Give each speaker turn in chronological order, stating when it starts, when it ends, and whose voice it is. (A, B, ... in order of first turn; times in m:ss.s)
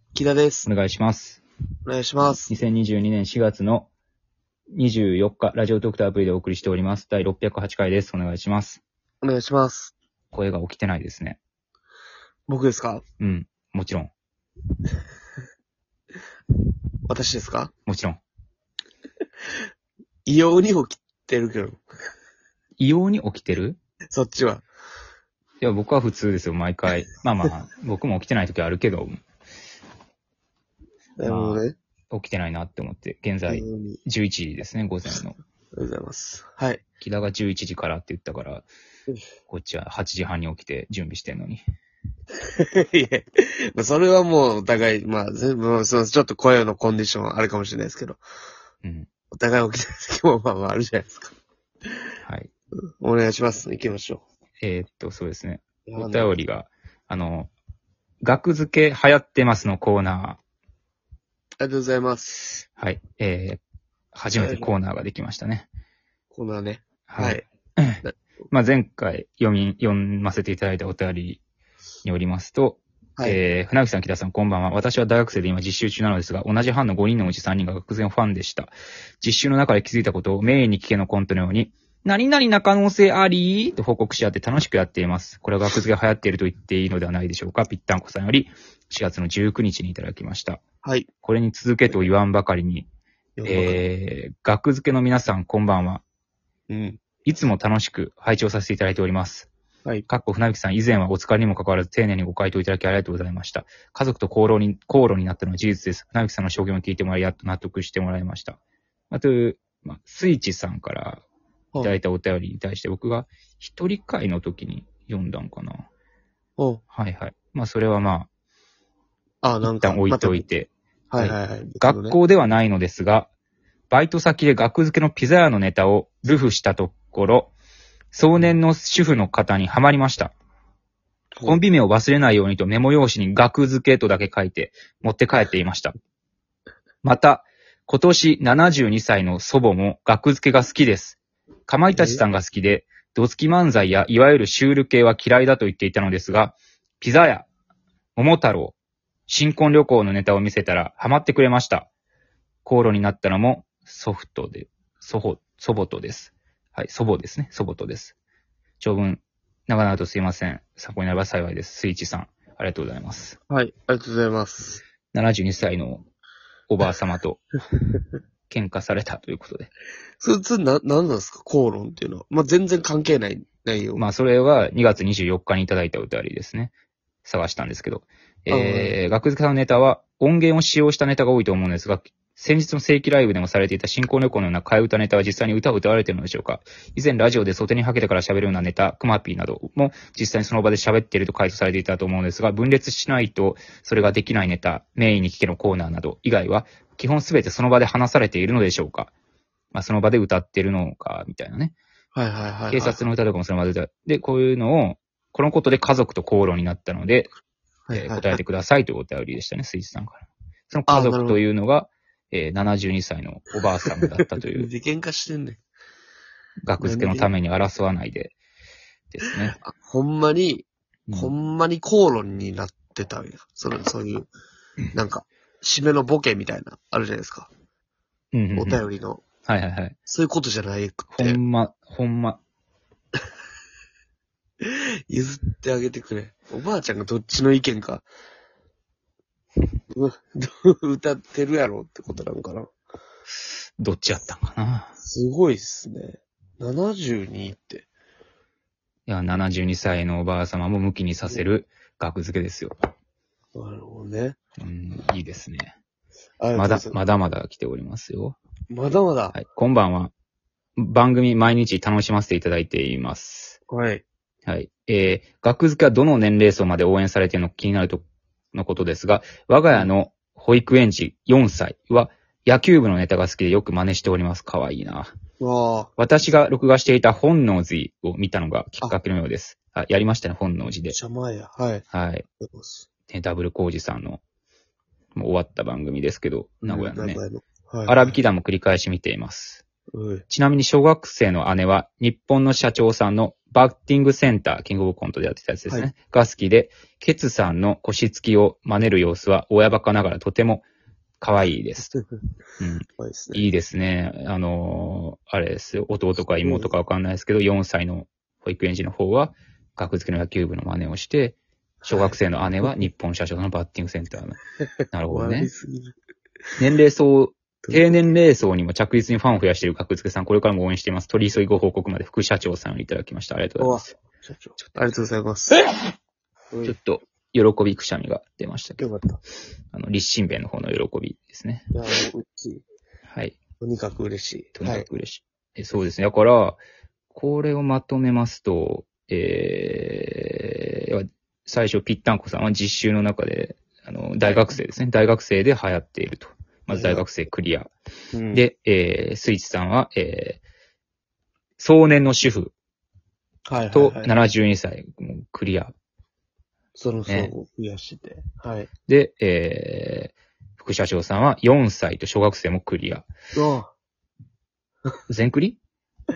0:00.1-0:00.7 A
0:00.6-0:01.4 B
0:01.8-0:02.5 A
0:02.2-0:03.9 B
0:04.7-0:08.8 B
0:09.2-0:09.9 A
0:10.3-0:11.4 B
0:12.5-0:13.0 A
0:13.2-0:14.1 B
0:17.1-0:17.7 A
0:17.8-0:18.2 B
0:20.2-0:21.8 A
0:22.8-0:23.8 B
0:24.1-0:24.6 A
0:25.6-0:29.2 B
0:31.2-0:31.8 A
0:31.2-0:35.4 B
0:33.5-0:34.0 A
0:35.7-0:36.8 A
0:37.0-0:38.7 B
0:39.5-0:41.6 B
0:42.4-0:48.2 A
0:48.8-0:49.1 B
0:49.3-0:51.3 A
0:52.2-0:52.5 B
0:53.0-0:54.2 A
0:54.6-0:57.5 B
0:55.8-0:56.4 A
0:58.2-1:00.4 B
1:01.6-1:02.6 A
1:02.8-1:03.6 B
1:04.1-1:05.7 B
1:04.3-1:04.7 A
1:06.3-1:07.4 A
1:07.1-1:11.4 B
1:12.0-1:30.6 B
1:30.8-1:31.1 A
1:31.2-1:32.9 B
1:33.4-1:33.8 A
1:33.4-1:36.0 B
1:36.7-1:37.0 A
1:37.2-1:39.5 B
1:40.1-1:48.6 B
1:49.1-1:51.2 B
1:51.8-1:55.9 B
1:56.9-1:58.3 B
1:59.4-2:00.5 A
1:59.6-2:03.3 B
2:01.1-2:02.2 A
2:03.9-2:07.5 B
2:08.1-2:10.3 B
2:11.4-2:15.9 B
2:17.0-2:27.5 B
2:21.9-2:22.2 A
2:28.2-2:28.8 B
2:29.3-2:31.9 B
2:32.6-2:38.1 B
2:38.8-2:43.4 B
2:43.5-2:44.8 A
2:45.1-2:46.0 B
2:46.7-2:47.4 B
2:48.5-2:49.7 B
2:50.2-2:54.0 A
2:54.0-2:56.7 B
2:57.2-3:19.1 B
2:58.5-2:59.0 A
3:19.7-3:21.8 B
3:22.1-3:23.0 A
3:22.7-3:27.3 B
3:27.9-3:28.4 A
3:27.9-3:34.7 B
3:30.9-3:31.4 A
3:34.5-3:35.6 A
3:36.6-3:38.4 B
3:36.8-3:37.3 A
3:39.1-3:39.6 B
3:39.6-3:44.3 A
3:41.1-3:41.3 B
3:44.9-3:47.5 A
3:48.3-3:48.8 B
3:48.5-3:49.2 A
3:49.4-3:50.0 B
3:50.0-3:51.4 A
3:51.2-3:52.4 B
3:54.6-3:58.1 A
3:59.9-4:02.7 A
4:03.8-4:04.9 B
4:05.0-4:07.9 A
4:09.1-4:12.7 B
4:13.5-4:14.4 A
4:14.6-4:15.7 B
4:16.4-4:17.0 A
4:16.5-4:18.4 B
4:18.7-4:19.4 A
4:19.3-4:20.1 B
4:20.8-4:23.6 B
4:23.7-4:24.0 A
4:24.4-4:35.1 B
4:35.4-4:35.9 A
4:36.0-4:41.0 B
4:40.9-4:41.8 A
4:41.9-4:42.2 B
4:42.4-4:42.9 A
4:43.1-4:44.2 B
4:45.1-4:47.2 B
4:46.6-4:48.2 A
4:47.8-4:49.6 B
4:49.9-4:50.2 A
4:50.3-5:00.6 B
5:01.2-5:01.9 B
5:02.6-5:11.4 B
5:03.0-5:03.5 A
5:06.4-5:06.7 A
5:11.8-5:12.2 A
5:11.9-5:14.4 B
5:14.9-5:15.5 B
5:15.1-5:15.9 A
5:16.6-5:23.9 B
5:17.6-5:17.9 A
5:23.6-5:25.6 A
5:26.6-5:28.8 B
5:28.8-5:29.2 A
5:29.7-5:31.7 B
5:31.7-5:32.6 A
5:33.1-5:33.4 B
5:33.6-5:34.9 A
5:34.5-5:36.6 B
5:37.1-5:47.7 B
5:44.2-5:44.5 A
5:46.7-5:47.0 A
5:48.1-5:48.4 A
5:48.3-5:50.4 B
5:51.6-5:52.5 B
5:53.5-5:54.1 A
5:53.7-5:55.7 B
5:56.8-5:58.7 A
5:57.1-5:57.3 B
5:58.9-6:03.1 B
6:03.3-6:03.7 A
6:05.1-6:05.6 B